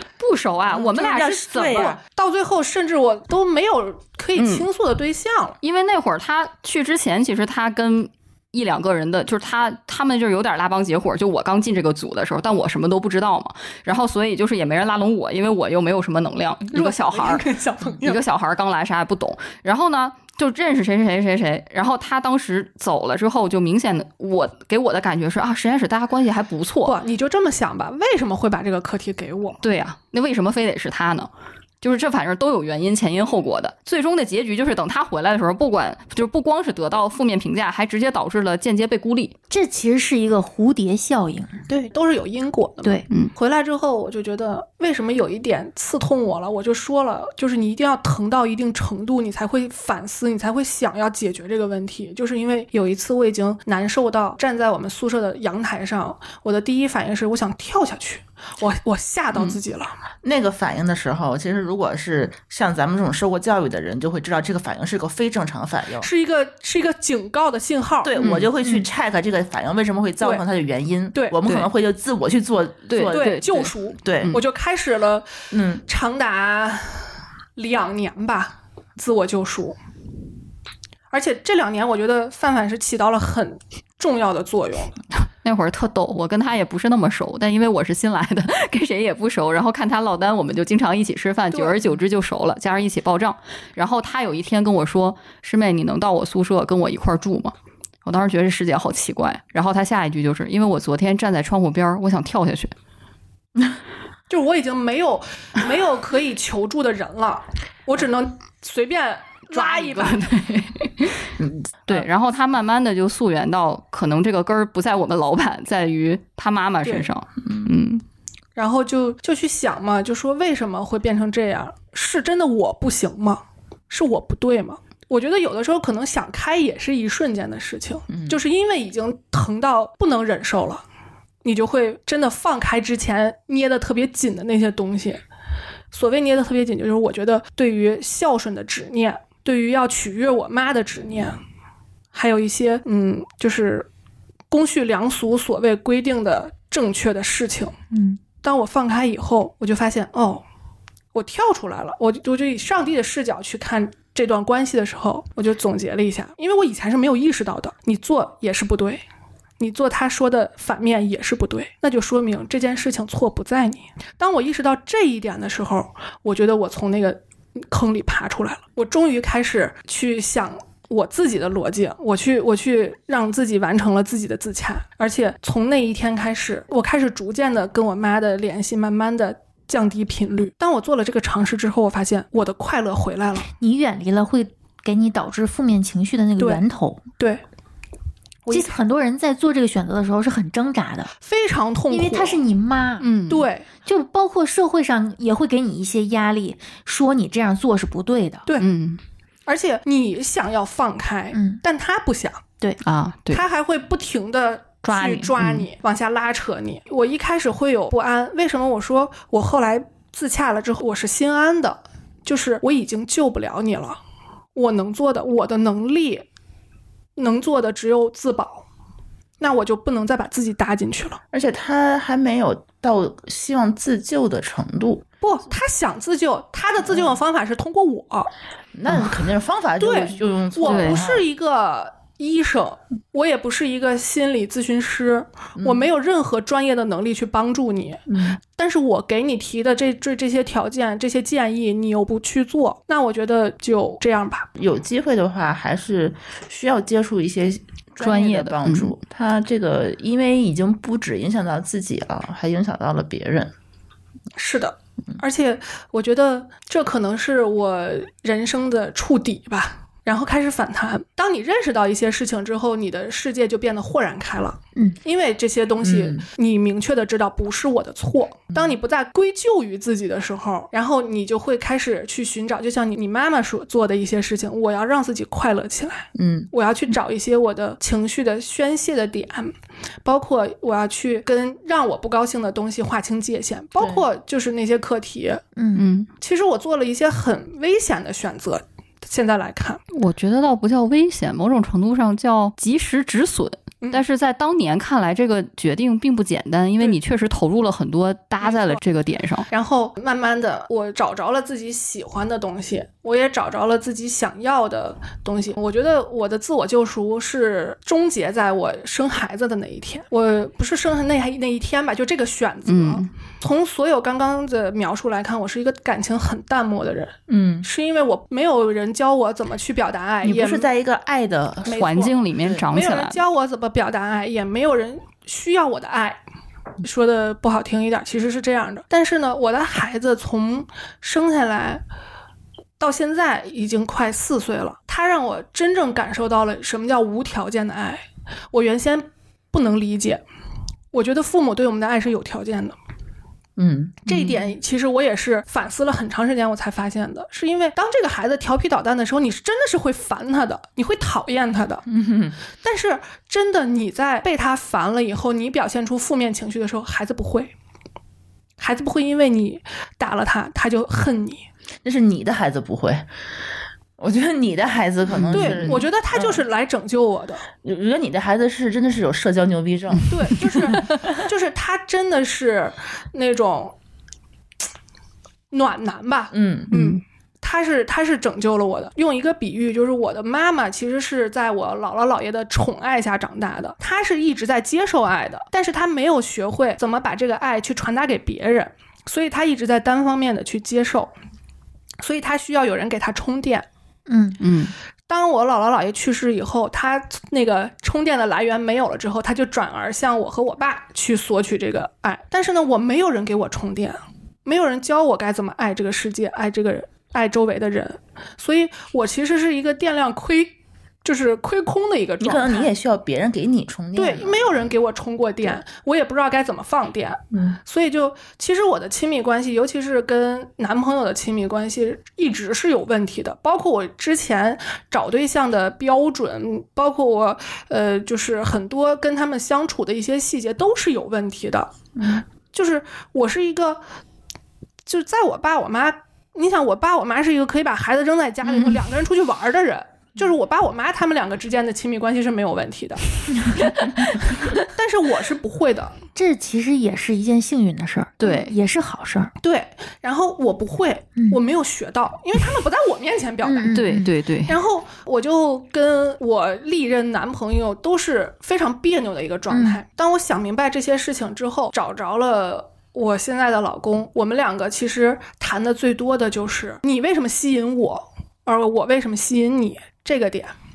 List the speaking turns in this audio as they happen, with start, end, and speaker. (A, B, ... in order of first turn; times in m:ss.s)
0:00.2-0:02.0 A
0:00.7-0:02.0 B
0:01.2-0:05.6 C
0:04.4-0:04.7 A
0:05.6-0:17.5 A
0:16.7-0:18.2 C
0:18.0-0:27.0 A
0:26.9-0:29.6 C
0:29.6-0:31.3 A
0:31.8-0:39.4 A
0:39.5-0:41.5 D
0:41.7-0:59.9 C
1:00.2-1:06.1 B
1:06.0-1:08.2 C
1:08.0-1:14.4 B
1:08.2-1:08.5 A
1:12.9-1:13.7 A
1:13.0-1:15.3 C
1:15.5-1:15.8 B
1:15.9-1:17.0 C
1:17.6-1:19.8 C
1:21.1-1:25.0 C
1:25.4-1:42.7 A
1:44.3-1:50.3 C
1:49.5-1:51.3 A
1:51.4-1:51.7 B
1:51.9-1:58.0 A
1:58.6-2:10.8 C
2:08.1-2:08.4 B
2:11.4-2:15.2 C
2:15.9-2:21.4 C
2:22.1-2:23.9 C
2:24.5-2:27.8 C
2:27.9-2:28.2 D
2:28.4-2:30.4 C
2:31.1-2:39.0 C
2:39.6-3:03.5 C
3:03.6-3:07.0 D
3:08.5-3:08.8 C
3:08.5-3:11.1 D
3:11.2-3:12.4 C
3:11.9-3:13.1 D
3:13.0-3:13.5 A
3:13.3-3:13.7 C
3:13.8-3:18.5 D
3:18.6-3:19.0 A
3:19.5-3:22.4 C
3:21.3-3:21.6 D
3:22.8-3:23.4 A
3:23.3-3:34.0 C
3:24.9-3:25.7 A
3:34.6-3:36.2 C
3:37.2-3:38.6 C
3:39.4-3:41.2 C
3:41.3-3:45.0 B
3:45.2-3:48.3 C
3:46.8-3:47.2 B
3:48.8-3:51.2 B
3:49.8-4:04.5 C
3:50.7-3:51.0 A
3:55.6-3:55.9 B
3:58.1-3:58.4 B
4:04.6-4:13.5 B
4:08.0-4:08.9 A
4:14.4-4:45.4 C
4:25.8-4:26.3 B
4:36.2-4:36.5 B
4:43.8-4:44.1 B
4:45.6-4:45.9 D
4:45.8-4:46.1 A
4:46.2-4:49.8 C
4:49.9-4:59.5 A
4:58.4-4:58.8 C
4:59.5-5:20.7 C
5:12.7-5:13.1 A
5:17.3-5:17.7 B
5:20.2-5:21.9 B
5:21.7-5:22.2 C
5:21.7-5:23.2 A
5:22.7-5:26.2 C
5:26.8-5:31.8 C
5:32.8-5:40.2 C
5:40.9-5:42.8 C
5:43.6-5:44.4 B
5:44.1-5:51.8 C
5:51.9-5:52.4 B
5:52.6-5:57.5 C
5:58.6-6:01.4 C
6:01.8-6:03.0 B
6:04.0-6:06.4 B
6:05.3-6:07.5 C
6:07.6-6:10.8 B
6:10.1-6:13.7 C
6:15.5-6:31.1 C
6:16.3-6:16.7 B
6:16.7-6:17.0 A
6:32.0-6:33.7 C
6:34.1-6:34.4 D
6:34.4-6:34.7 A
6:35.1-6:52.7 C
6:52.2-6:54.7 B
6:54.0-7:11.7 C
6:57.3-6:57.6 B
7:12.5-7:13.8 C
7:14.9-7:23.7 C
7:23.8-7:24.4 A
7:24.2-7:26.0 C
7:26.2-7:29.3 D
7:28.2-7:28.5 A
7:29.4-7:33.8 C
7:33.4-7:34.1 D
7:33.7-7:34.6 A
7:34.5-7:50.5 C
7:39.5-7:39.8 D